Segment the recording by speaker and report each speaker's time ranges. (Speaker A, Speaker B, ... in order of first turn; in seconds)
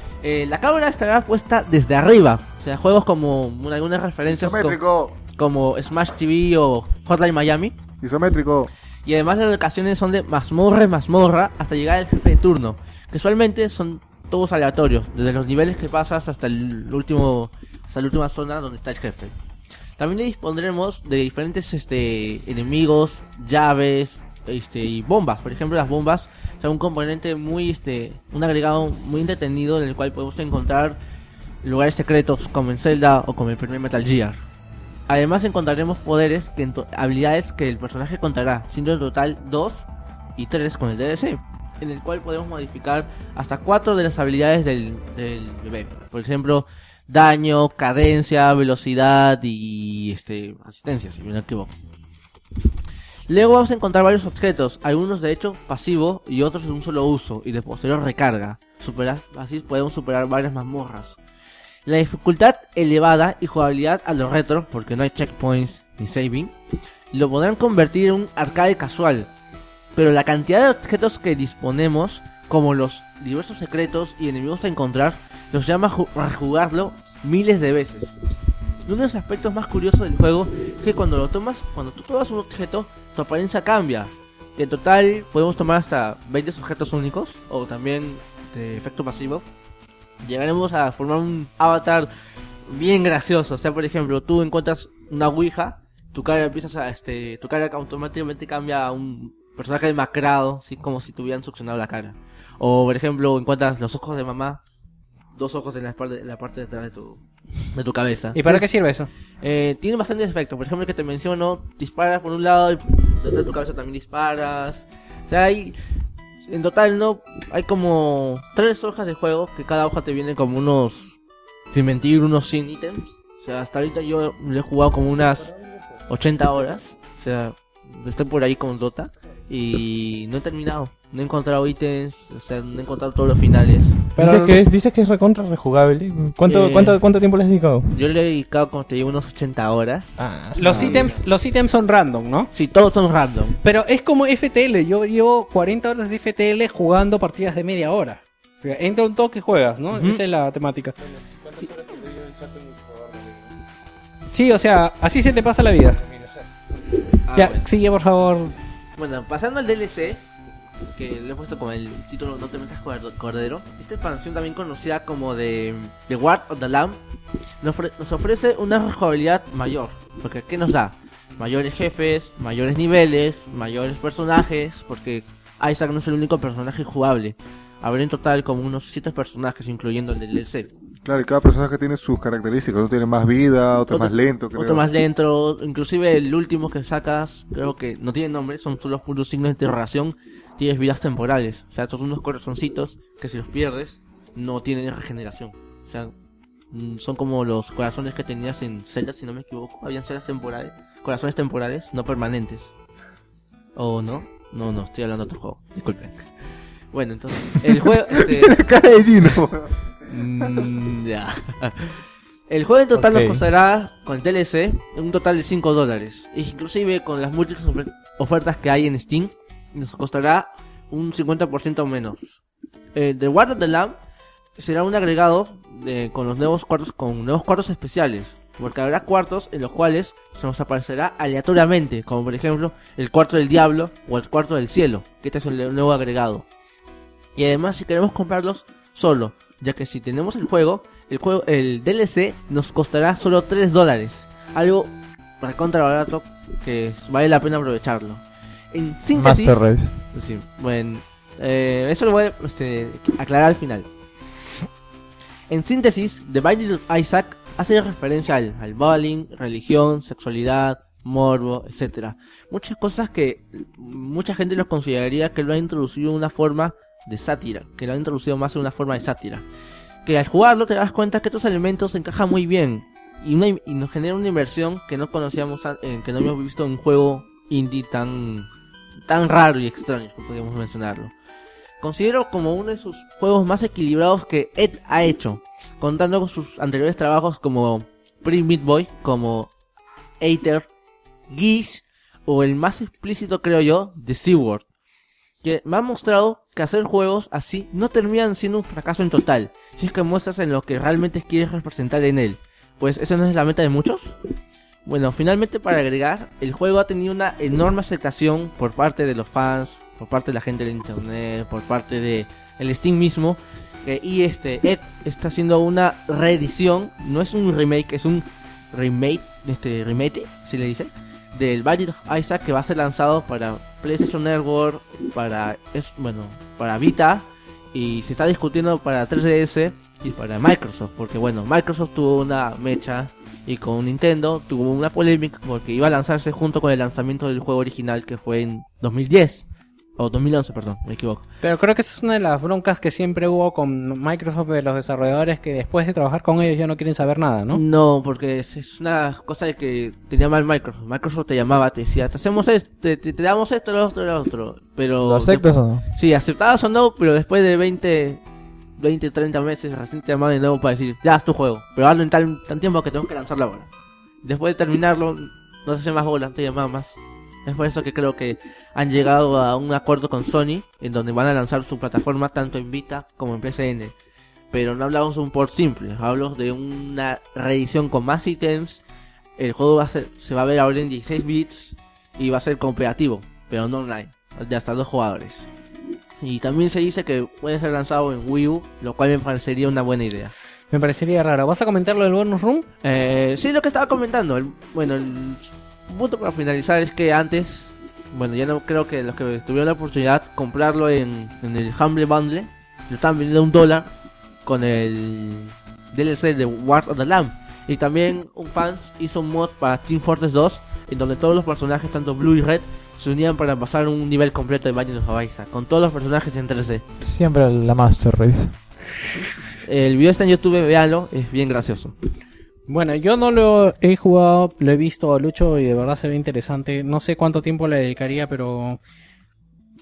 Speaker A: 0.2-7.8, 9.1-19.4, 20.0-31.0, 31.6-34.4, 35.1-51.7, 53.3-61.2, 61.9-66.5, 67.1-69.3, 70.0-78.2, 78.9-89.5, 90.2-92.1, 92.7-104.6, 105.3-107.2, 107.7-108.7, 109.4-115.8, 116.5-121.2, 121.7-125.6, 126.1-134.6, 136.4-137.0, 137.9-141.2, 142.5-143.6, 149.9-150.2, 157.3-157.7, 159.0-160.2, 160.9-167.0, 167.6-180.7, 183.9-196.1, 196.7-202.7, 203.8-206.3, 206.9-208.6, 210.1-222.4, 222.9-224.0, 224.6-236.5, 237.4-253.9, 255.5-269.5, 270.1-278.5, 279.1-281.1, 281.8-289.5, 290.2-290.7, 291.3-294.7, 295.4-304.2, 304.9-341.3, 347.5-358.2, 358.8-363.7, 364.2-373.9, 374.5-378.8, 379.4-385.5, 386.2-390.3, 392.8-403.9, 404.4-416.8, 419.6-421.9
Speaker B: 4.3-5.2, 8.0-8.7, 181.0-184.8, 208.3-209.7
Speaker C: 108.3-109.1, 140.6-142.5, 143.6-150.9, 154.3-156.0, 157.3-158.5, 341.4-347.6, 390.7-392.7, 422.7-428.8
Speaker D: 134.1-138.0, 140.2-141.1, 151.1-153.5
Speaker E: 212.9-213.4, 249.1-249.9, 355.0-355.8, 417.0-418.5